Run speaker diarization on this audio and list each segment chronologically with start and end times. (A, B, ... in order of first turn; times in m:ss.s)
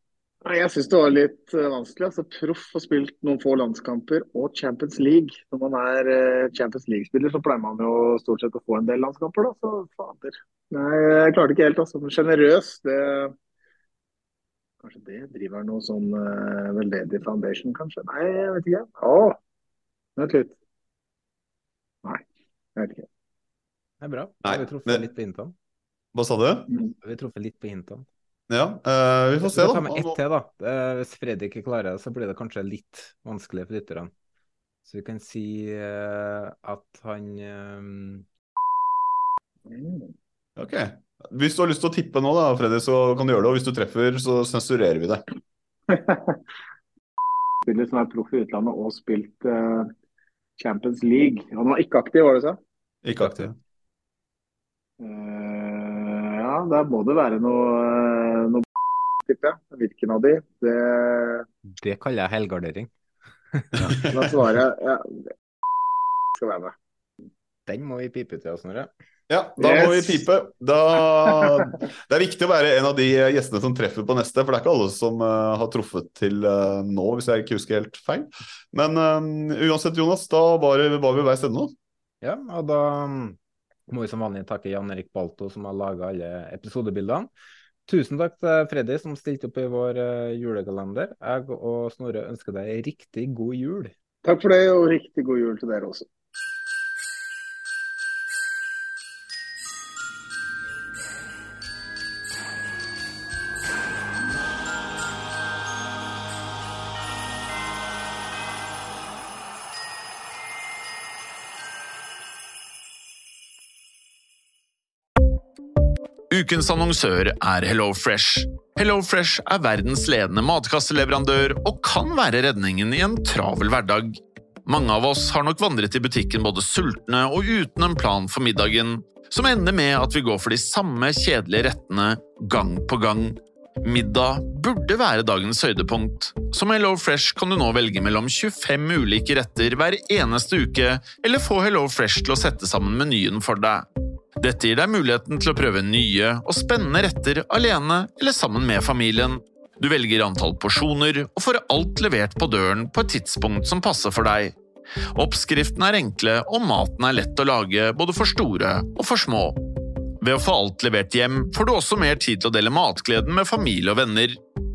0:00.4-0:13.3 A
0:14.8-0:19.4 A
0:20.2-0:20.5 A
0:22.8-0:23.0 A
0:24.0-0:25.5 B
0:24.4-0:25.1 C
0:26.1-0:26.7 C
0:27.0-0:28.0 B
0:28.5-0:30.2 C
0:29.4-0:34.1 B
0:34.8-0:38.2 B
0:39.7-0:40.1 A
0:40.6-0:45.2 C
0:45.9-0:46.4 A
0:47.6-0:49.9 A
0:50.6-0:52.6 A
0:53.0-0:53.6 C
0:55.0-0:58.7 A
0:59.2-1:01.4 A
1:01.7-1:02.9 B
1:03.5-1:03.8 B
1:03.8-1:04.2 C
1:04.0-1:05.2 A
1:06.3-1:06.8 A
1:07.7-1:08.9 B
1:09.3-1:21.7 C
1:09.6-1:10.2 A
1:11.3-1:11.7 A
1:22.2-1:23.4 B
1:23.9-1:27.3 B
1:27.9-1:33.9 B
1:34.2-1:36.0 A
1:56.3-2:23.8 D
2:24.4-2:34.6 D
2:35.1-2:39.6 D
2:40.2-2:44.4 D